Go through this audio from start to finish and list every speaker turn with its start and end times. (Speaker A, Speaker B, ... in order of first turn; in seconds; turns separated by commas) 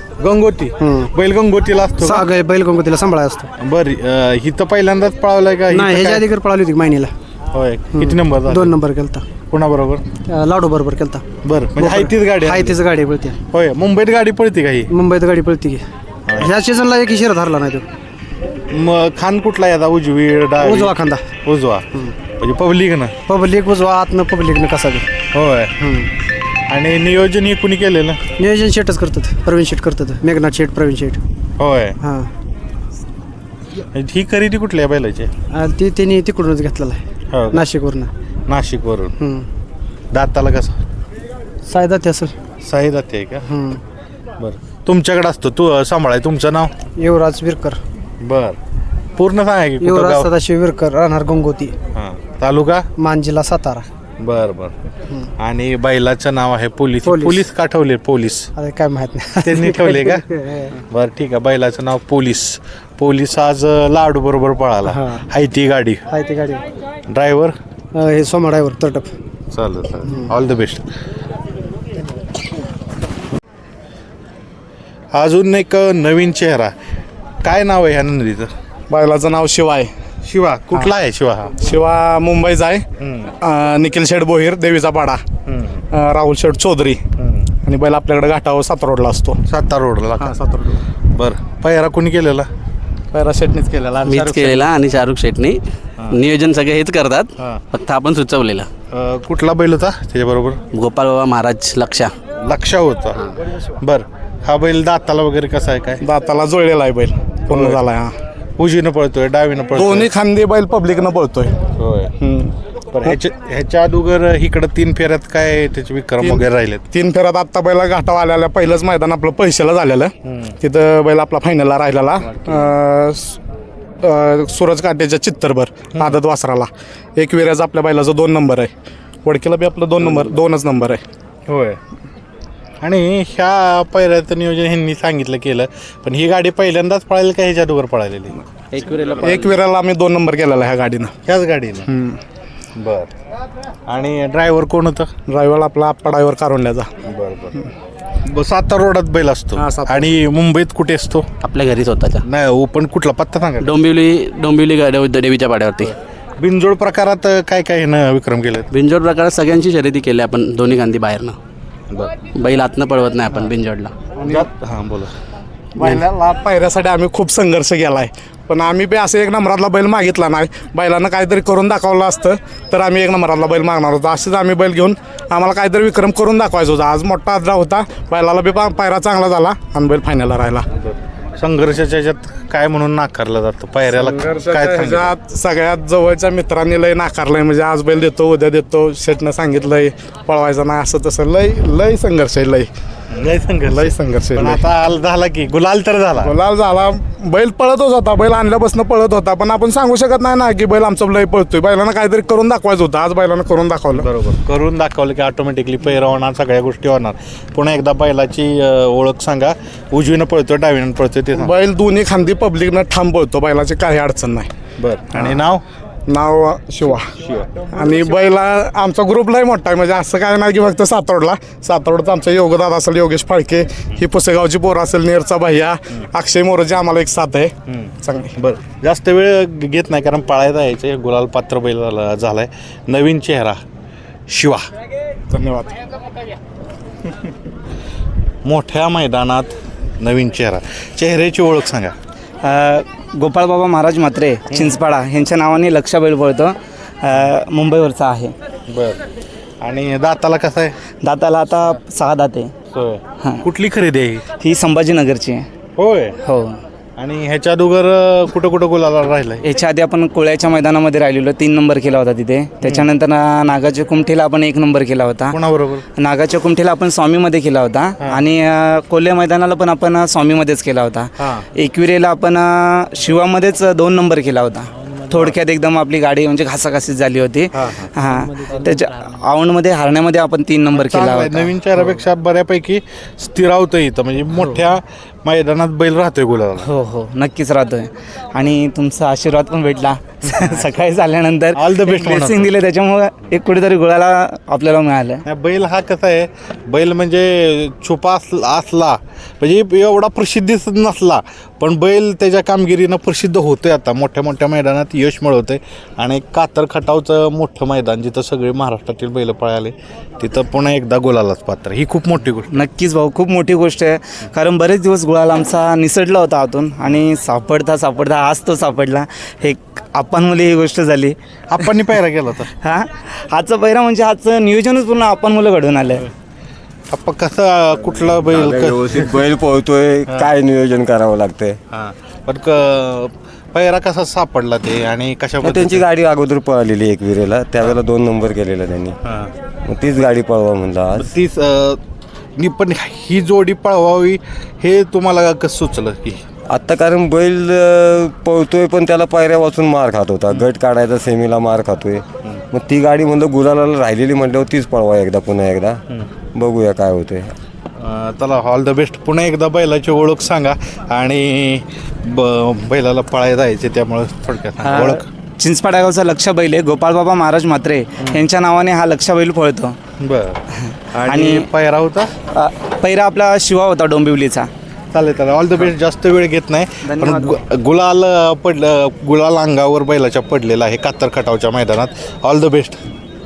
Speaker A: 0.2-2.3, Speaker B: 0.8-1.1, Speaker B: 2.0-3.5, Speaker A: 3.6-6.2, Speaker B: 5.7-7.1, Speaker A: 7.5-8.8, Speaker B: 7.9-9.2, Speaker A: 9.5-10.0, Speaker B: 10.3-11.2, Speaker A: 11.4-12.8, Speaker B: 11.8-13.4, Speaker A: 13.5-14.9, Speaker B: 14.9-15.8, Speaker B: 16.3-17.8, Speaker A: 18.7-21.9, Speaker B: 20.6-21.2, Speaker A: 22.4-23.1, Speaker B: 23.3-25.1, Speaker A: 25.3-25.7, Speaker B: 25.8-26.1, Speaker A: 26.7-28.2, Speaker B: 28.4-31.2, Speaker A: 31.6-32.0, Speaker B: 32.0-32.3, Speaker A: 33.9-35.3, Speaker B: 35.5-38.1, Speaker A: 37.3-37.6, Speaker A: 38.5-39.1, Speaker B: 39.2-39.5, Speaker A: 40.1-40.8, Speaker B: 41.7-42.3, Speaker A: 42.6-43.5, Speaker B: 43.5-43.8, Speaker A: 44.4-46.7, Speaker B: 47.0-47.8, Speaker A: 48.2-48.6, Speaker A: 49.2-50.3, Speaker B: 49.8-51.7, Speaker A: 51.9-52.9, Speaker B: 53.0-53.9, Speaker A: 54.2-54.7, Speaker A: 55.4-58.5, Speaker B: 57.0-57.4, Speaker B: 58.5-60.7, Speaker A: 59.4-60.2, Speaker A: 60.9-66.0, Speaker B: 64.9-65.2, Speaker B: 66.1-66.6, Speaker A: 67.1-67.5, Speaker B: 67.9-69.1, Speaker A: 69.5-70.8, Speaker A: 75.1-76.7, Speaker A: 77.4-78.5, Speaker C: 78.9-79.9, Speaker A: 80.2-81.5, Speaker C: 81.6-82.8, Speaker A: 83.0-83.3, Speaker C: 83.4-85.2, Speaker A: 85.5-85.8, Speaker C: 85.9-87.0, Speaker A: 87.2-87.5, Speaker C: 87.6-89.4, Speaker A: 89.5-90.3, Speaker C: 90.2-90.8, Speaker A: 91.1-92.5, Speaker C: 93.1-94.7, Speaker D: 94.0-98.7, Speaker A: 98.9-100.6, Speaker D: 100.7-102.1, Speaker A: 102.4-103.2, Speaker A: 103.8-106.0, Speaker C: 106.0-108.1, Speaker A: 107.5-107.8, Speaker A: 108.6-110.1, Speaker C: 109.7-111.5, Speaker A: 111.8-112.1, Speaker C: 112.2-113.2, Speaker A: 112.9-116.8, Speaker C: 116.2-123.4, Speaker A: 120.2-120.5, Speaker C: 124.0-128.7, Speaker C: 129.2-131.0, Speaker A: 131.5-131.8, Speaker A: 132.8-138.3, Speaker D: 138.7-139.6, Speaker C: 139.2-141.1, Speaker A: 141.3-141.9, Speaker C: 141.8-142.2, Speaker A: 142.8-143.1, Speaker A: 143.9-145.1, Speaker C: 145.3-146.9, Speaker A: 147.1-147.6, Speaker A: 148.2-151.3, Speaker C: 149.6-150.1, Speaker D: 151.4-152.2, Speaker A: 152.2-153.7, Speaker D: 153.6-155.9, Speaker A: 156.4-158.7, Speaker D: 158.7-161.3, Speaker D: 162.3-163.9, Speaker A: 164.2-165.1, Speaker C: 165.8-180.6, Speaker A: 181.4-185.1, Speaker C: 183.9-192.7, Speaker A: 193.1-196.3, Speaker C: 193.7-194.6, Speaker C: 196.2-204.1, Speaker A: 204.0-211.5, Speaker C: 211.3-214.5, Speaker A: 214.8-215.6, Speaker C: 215.1-215.4, Speaker C: 216.1-217.1, Speaker A: 217.2-217.7, Speaker C: 217.7-228.3, Speaker A: 227.7-233.6, Speaker A: 234.3-234.6, Speaker C: 235.3-235.7, Speaker A: 238.4-241.9, Speaker E: 242.4-248.3, Speaker A: 248.7-249.0, Speaker A: 249.6-250.8, Speaker E: 251.0-252.5, Speaker A: 252.7-254.2, Speaker E: 254.4-255.4, Speaker A: 255.8-256.1, Speaker E: 256.2-256.6, Speaker A: 257.0-259.4, Speaker E: 259.4-265.4, Speaker A: 262.6-262.9, Speaker A: 265.3-265.8, Speaker E: 266.0-281.5, Speaker A: 271.2-271.4, Speaker A: 277.5-277.9, Speaker A: 280.7-286.7, Speaker E: 286.6-295.2, Speaker A: 290.2-290.7, Speaker A: 291.5-292.5, Speaker A: 295.2-312.6, Speaker E: 312.5-321.7, Speaker A: 321.5-322.5, Speaker E: 322.6-326.0, Speaker A: 326.9-329.1, Speaker F: 328.0-331.6, Speaker A: 330.1-330.3, Speaker A: 331.7-335.9, Speaker F: 335.4-338.9, Speaker A: 339.1-339.3, Speaker F: 339.6-341.1, Speaker A: 341.0-341.8, Speaker A: 342.4-346.2, Speaker F: 346.5-355.8, Speaker F: 356.3-357.3, Speaker A: 357.8-365.0, Speaker E: 364.6-369.8, Speaker A: 370.0-370.4, Speaker A: 370.9-372.1, Speaker E: 371.1-371.5, Speaker E: 372.3-374.5, Speaker A: 374.9-382.8, Speaker E: 376.8-377.4